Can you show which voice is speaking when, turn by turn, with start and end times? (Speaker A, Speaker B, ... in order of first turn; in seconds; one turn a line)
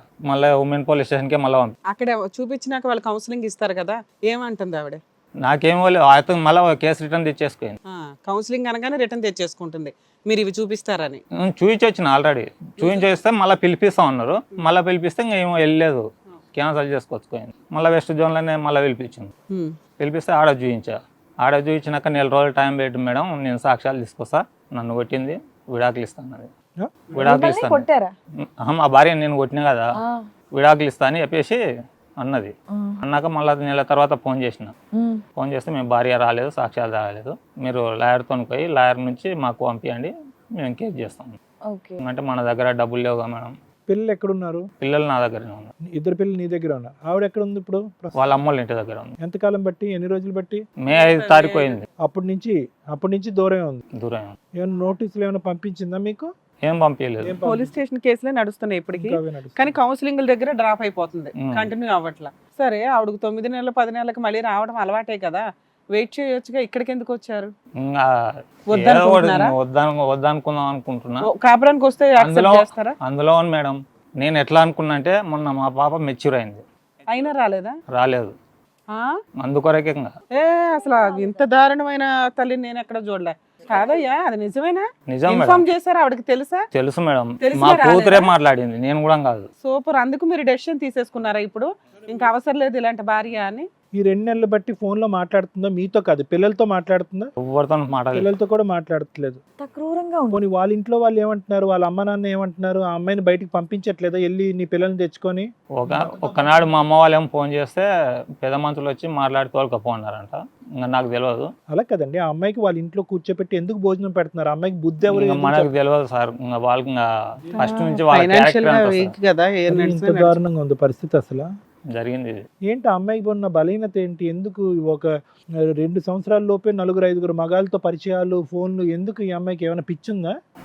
Speaker A: 0.3-1.8
Speaker B: 1.9-5.0
Speaker A: 5.4-7.8
Speaker B: 7.9-11.2
Speaker A: 11.4-19.3
Speaker A: 20.0-26.5
Speaker A: 27.1-27.9
Speaker C: 27.2-28.1
Speaker A: 28.6-29.9
Speaker C: 30.0-30.3
Speaker A: 30.6-31.6
Speaker A: 32.2-34.7
Speaker C: 32.7-33.0
Speaker C: 34.9-35.2
Speaker A: 35.4-41.4
Speaker C: 41.7-42.0
Speaker A: 42.0-43.5
Speaker D: 43.9-44.7
Speaker A: 44.8-45.7
Speaker D: 45.9-48.1
Speaker A: 48.2-49.1
Speaker D: 49.2-50.6
Speaker A: 50.8-51.9
Speaker B: 50.9-51.8
Speaker D: 52.0-53.8
Speaker A: 54.0-54.4
Speaker D: 54.6-56.3
Speaker A: 56.6-57.4
Speaker D: 57.2-57.7
Speaker B: 57.4-65.4
Speaker D: 58.9-59.8
Speaker A: 61.4-61.7
Speaker B: 66.0-67.5
Speaker A: 67.8-68.1
Speaker B: 68.7-69.5
Speaker A: 68.7-71.3
Speaker B: 71.2-73.0
Speaker A: 72.2-76.7
Speaker B: 77.1-77.8
Speaker A: 77.9-78.3
Speaker A: 79.4-80.1
Speaker B: 80.3-86.6
Speaker A: 85.1-85.6
Speaker A: 86.7-89.5
Speaker B: 87.4-88.3
Speaker B: 89.6-93.7
Speaker D: 94.0-97.3
Speaker A: 97.4-98.3
Speaker D: 98.1-99.4
Speaker C: 99.6-100.4
Speaker D: 100.3-106.7
Speaker A: 105.8-107.9
Speaker A: 108.4-111.5
Speaker D: 111.7-115.7
Speaker A: 115.1-117.1
Speaker A: 117.6-119.1
Speaker B: 117.6-120.3
Speaker D: 119.7-121.5
Speaker A: 122.0-122.4
Speaker D: 122.7-125.1
Speaker D: 125.6-130.3